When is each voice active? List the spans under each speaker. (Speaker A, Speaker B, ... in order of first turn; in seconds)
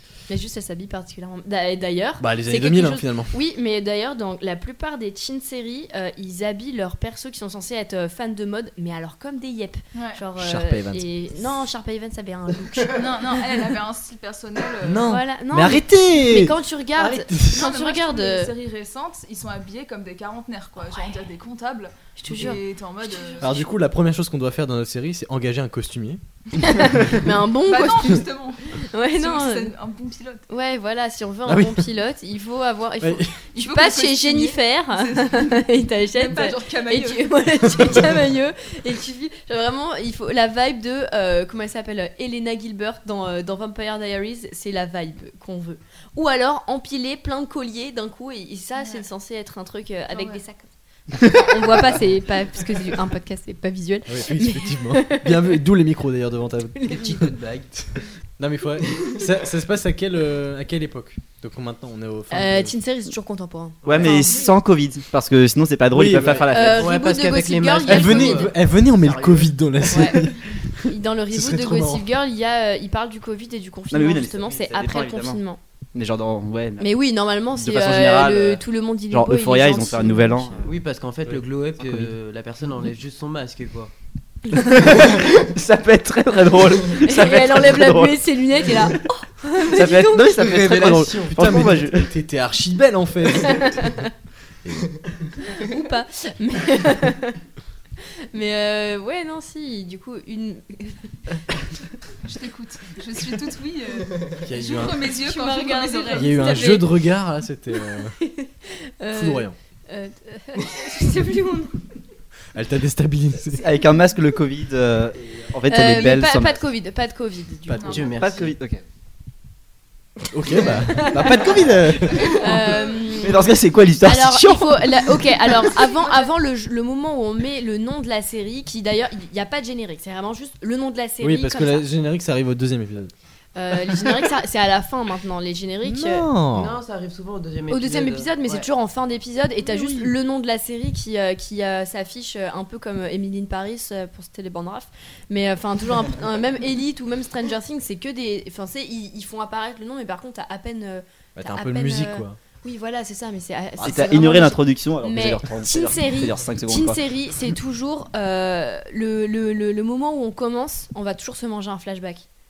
Speaker A: 0.3-13.0, 15.1-18.5, 22.2-22.6, 26.6-28.2, 28.9-29.7, 30.5-55.6, 56.8-57.2, 62.3-64.5, 66.5-68.5, 69.9-70.2, 70.9-75.6, 76.8-80.6, 87.1-90.3, 93.6-94.0, 95.5-97.4, 98.3-101.0, 105.2-106.9, 108.2-111.8, 115.7-118.1, 120.9-121.5, 122.3-123.5, 124.0-131.8, 133.6-136.3, 137.7-162.3
Speaker B: 2.2-3.3, 10.4-11.1, 14.8-17.7, 23.4-27.3, 31.5-31.9, 33.0-33.4, 54.1-62.7, 65.9-66.5, 67.9-72.1, 90.7-94.0, 94.6-95.0, 104.4-105.1, 106.1-108.2, 109.1-109.5, 112.5-113.6, 117.7-118.1, 120.3-122.8, 131.2-133.1, 135.8-136.8, 139.7-140.1, 151.4-152.4
Speaker C: 9.9-10.2, 12.9-15.1, 17.5-23.7, 27.6-30.5, 33.5-38.0, 48.8-49.1, 50.1-50.4, 102.2-106.8, 117.8-118.1, 121.9-123.1, 125.8-126.3
Speaker D: 51.2-51.6, 63.8-66.9, 73.9-75.4, 75.9-76.9, 77.5-80.7, 84.8-88.9, 89.7-92.1, 113.5-116.6, 118.2-118.8, 123.2-125.2, 153.8-157.0
Speaker E: 56.9-57.7, 66.5-70.0, 80.6-83.9, 90.4-91.7, 117.9-118.5, 136.5-138.7